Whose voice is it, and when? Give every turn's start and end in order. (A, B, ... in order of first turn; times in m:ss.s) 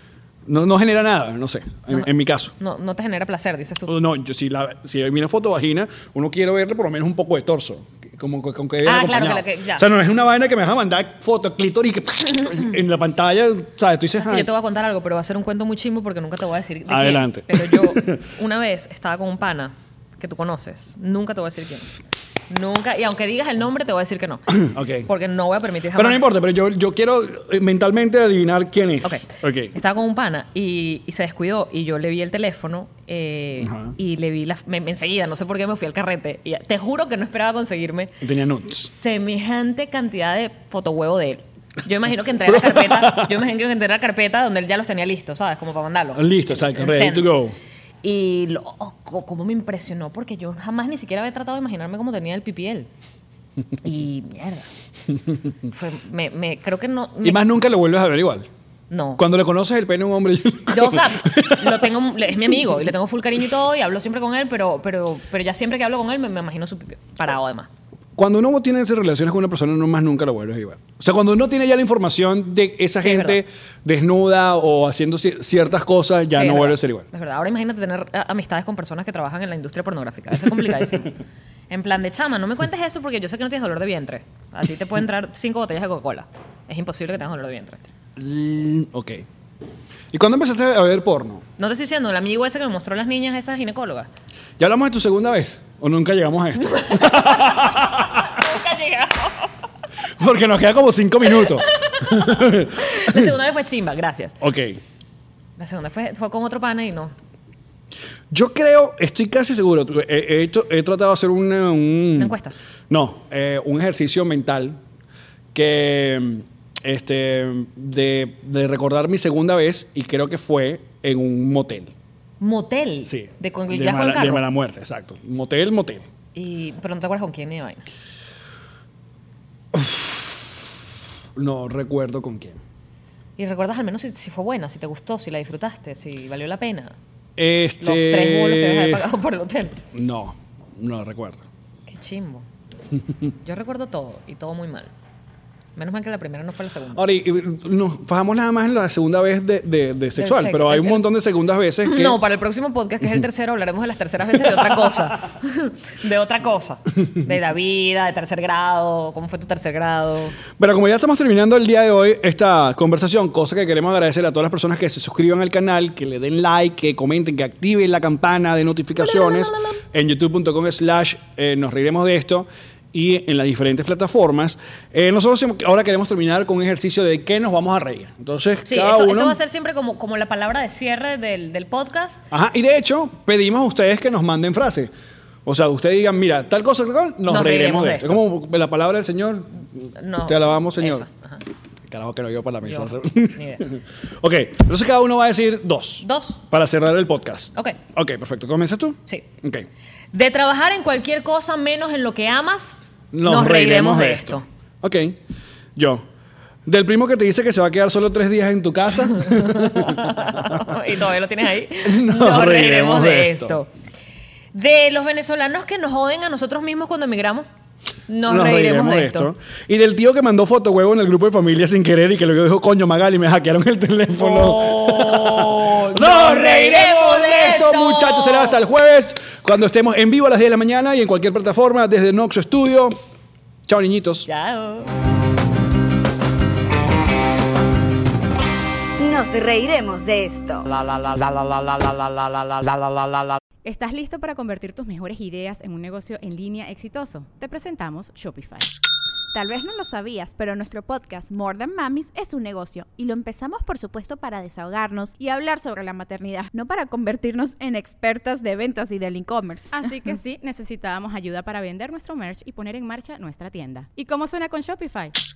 0:00.4-0:02.5 A
0:02.6-0:04.0 B
0:03.9-0:14.5 A
0:08.8-0:09.9 B
0:14.1-0:26.2 B
0:16.9-0:18.3 A
0:24.5-0:25.1 A
0:25.9-0:29.7 A
0:29.0-0:38.1 B
0:33.6-0:33.9 A
0:38.2-0:38.9 A
0:38.8-0:47.3 B
0:42.4-0:43.4 A
0:46.1-0:47.5 A
0:48.0-0:52.9 B
0:53.8-0:54.7 B
0:55.7-0:57.4 B
0:57.2-0:58.5 A
0:58.9-0:59.2 B
0:59.2-1:01.9 A
1:00.7-1:07.7 B
1:08.2-1:17.0 A
1:13.0-1:13.4 B
1:16.3-1:21.2 B
1:21.7-1:27.8 B
1:28.2-1:29.2 A
1:30.1-1:31.4 A
1:31.6-1:34.1 B
1:34.6-1:38.2 A
1:36.6-1:39.5 B
1:40.2-1:43.3 A
1:41.2-1:44.4 B
1:44.4-1:44.8 A
1:45.6-1:47.1 B
1:48.3-1:52.4 A
1:52.2-1:52.5 B
1:52.9-1:54.8 A
1:55.5-2:01.9 A
2:02.4-2:04.4 B
2:03.1-2:06.1 A
2:06.3-2:07.8 B
2:09.7-2:10.2 A
2:11.3-2:12.6 A
2:13.4-2:16.9 B
2:17.4-2:19.0 A
2:17.8-2:19.8 B
2:19.9-2:21.4 A
2:21.9-2:22.4 B
2:23.4-2:24.9 B
2:25.8-2:27.0 B
2:26.9-2:32.2 A
2:30.2-2:31.1 B
2:31.8-2:40.4 B
2:40.5-2:59.4 A
2:49.0-2:49.8 B
2:58.6-3:02.2 B
3:02.3-3:04.9 A
3:05.4-3:11.1 A
3:07.3-3:08.2 B
3:10.0-3:11.4 B
3:11.9-3:19.7 A
3:12.6-3:13.6 B
3:16.0-3:16.4 B
3:20.1-3:24.4 B
3:23.1-3:25.2 A
3:25.8-3:26.0 A
3:26.6-3:30.7 A
3:29.3-3:33.7 B
3:31.8-3:33.6 A
3:34.5-3:37.4 B
3:38.1-3:39.3 B
3:38.2-3:53.0 A
3:44.2-3:48.6 B
3:53.7-3:54.3 A
3:54.3-3:54.9 B
3:59.0-4:03.4 C
4:03.6-4:08.7 D
4:09.3-4:19.8 E
4:19.7-4:25.1 D